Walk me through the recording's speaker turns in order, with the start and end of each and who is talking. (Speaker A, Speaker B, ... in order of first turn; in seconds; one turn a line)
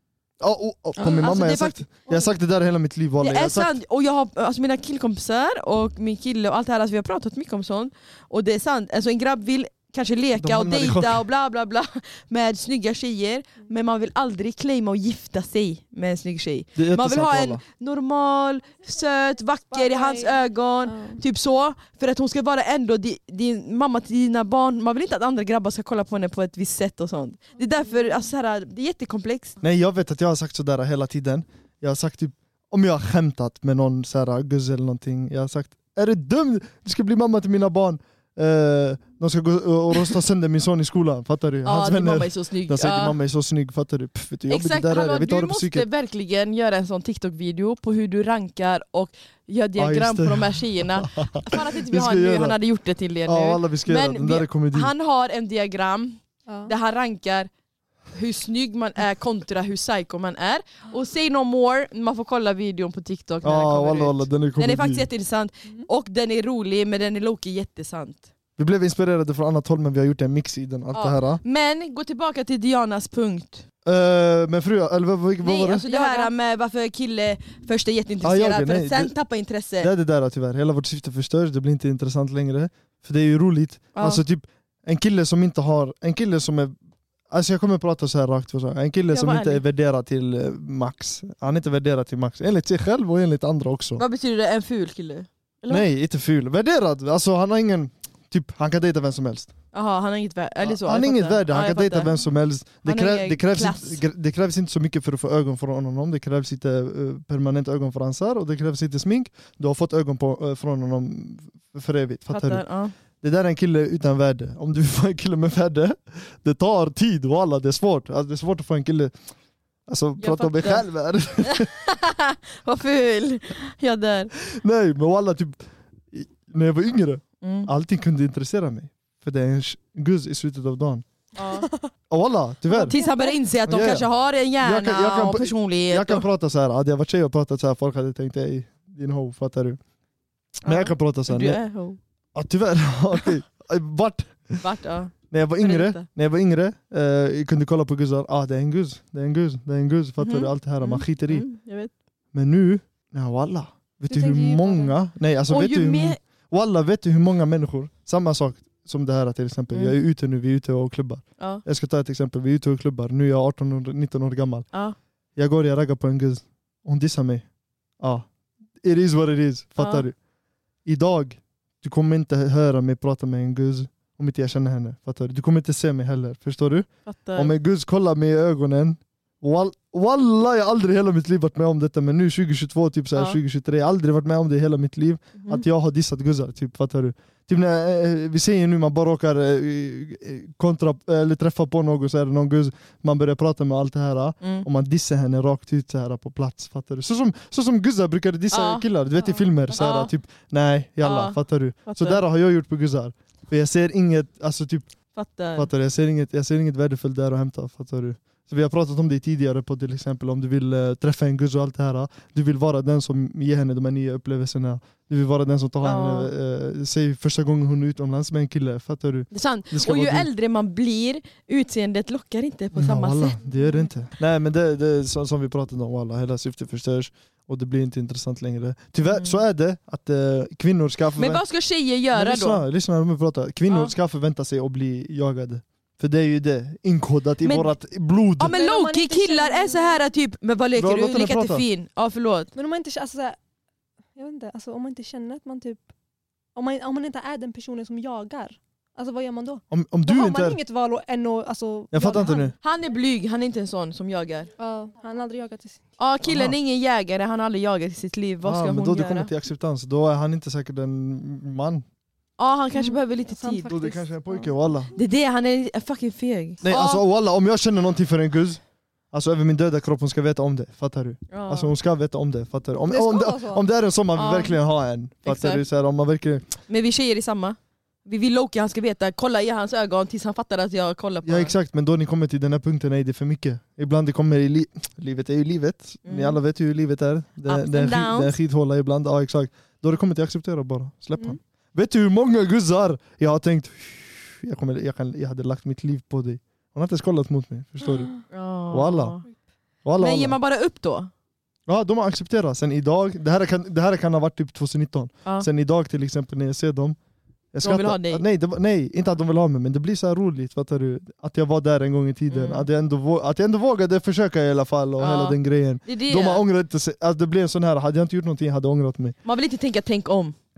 Speaker A: 0.4-3.7
Speaker B: 1.0-1.9
Speaker B: 3.2-29.6
Speaker A: 10.4-11.2
Speaker A: 16.8-17.6
Speaker C: 19.7-21.2
Speaker C: 27.7-28.2
Speaker A: 29.6-45.9
Speaker B: 41.6-43.1
Speaker B: 44.5-57.5
Speaker A: 49.8-52.6
Speaker A: 53.2-54.9
Speaker C: 56.5-56.7
Speaker B: 58.1-68.3
Speaker A: 63.4-65.1
Speaker A: 68.6-71.4
Speaker B: 70.9-73.6
Speaker A: 73.8-75.8
Speaker B: 75.4-79.9
Speaker C: 75.9-76.3
Speaker A: 78.2-79.1
Speaker A: 79.8-86.7
Speaker B: 83.9-84.2
Speaker A: 87.3-94.0
Speaker B: 89.1-89.6
Speaker B: 94.0-95.9
Speaker A: 95.7-99.5
Speaker B: 99.7-102.1
Speaker A: 100.6-112.6
Speaker B: 102.8-104.0
Speaker B: 112.3-112.9
Speaker A: 113.2-119.1
Speaker A: 119.9-121.7
Speaker B: 120.2-120.8
Speaker B: 121.4-124.3
Speaker A: 124.4-131.0
Speaker B: 127.4-127.7
Speaker B: 131.3-131.7
Speaker C: 131.6-131.9
Speaker A: 132.1-132.9
Speaker C: 132.7-133.4
Speaker B: 132.9-136.2
Speaker A: 133.7-134.1
Speaker A: 134.6-139.8
Speaker A: 140.6-141.6
Speaker B: 140.6-142.0
Speaker A: 142.3-144.6
Speaker B: 144.6-146.1
Speaker A: 145.3-151.4
Speaker B: 150.2-151.9
Speaker A: 152.3-164.7
Speaker C: 154.1-154.9
Speaker B: 155.5-156.2
Speaker A: 165.3-167.4
Speaker A: 168.0-168.2
Speaker A: 168.8-170.2
Speaker B: 169.8-170.0
Speaker A: 170.8-204.9
Speaker B: 177.1-177.5
Speaker B: 183.1-183.4
Speaker B: 185.4-185.6
Speaker B: 194.4-194.7
Speaker B: 198.5-198.8
Speaker B: 199.7-200.1
Speaker B: 201.0-202.2
Speaker B: 205.1-205.7
Speaker A: 205.6-220.3
Speaker B: 215.8-216.3
Speaker B: 219.3-223.5
Speaker A: 222.7-231.4
Speaker B: 229.1-229.4
Speaker B: 231.2-232.6
Speaker A: 232.1-238.5
Speaker B: 237.4-237.7
Speaker B: 238.4-242.5
Speaker C: 238.5-240.0
Speaker A: 240.8-241.6
Speaker C: 242.5-243.4
Speaker C: 244.2-245.8
Speaker C: 246.6-252.5
Speaker A: 249.7-250.6
Speaker A: 251.9-252.5
Speaker B: 252.6-254.5
Speaker C: 254.6-255.9
Speaker B: 256.0-259.3
Speaker A: 256.2-256.6
Speaker A: 258.4-261.8
Speaker B: 262.4-263.7
Speaker C: 262.7-264.5
Speaker A: 263.7-264.9
Speaker B: 264.9-267.0
Speaker A: 266.6-268.6
Speaker A: 269.1-276.4
Speaker B: 271.3-271.7
Speaker C: 272.9-273.6
Speaker B: 274.1-274.6
Speaker B: 275.2-275.6
Speaker B: 276.7-281.5
Speaker A: 281.2-298.1
Speaker B: 286.0-286.4
Speaker B: 287.4-288.3
Speaker C: 297.9-298.2
Speaker B: 298.3-299.2
Speaker A: 298.7-299.2
Speaker A: 299.8-300.4
Speaker B: 300.0-301.1
Speaker A: 301.7-307.0
Speaker A: 307.5-319.1
Speaker B: 307.6-308.2
Speaker B: 312.3-312.7
Speaker B: 315.0-316.4
Speaker B: 319.2-320.4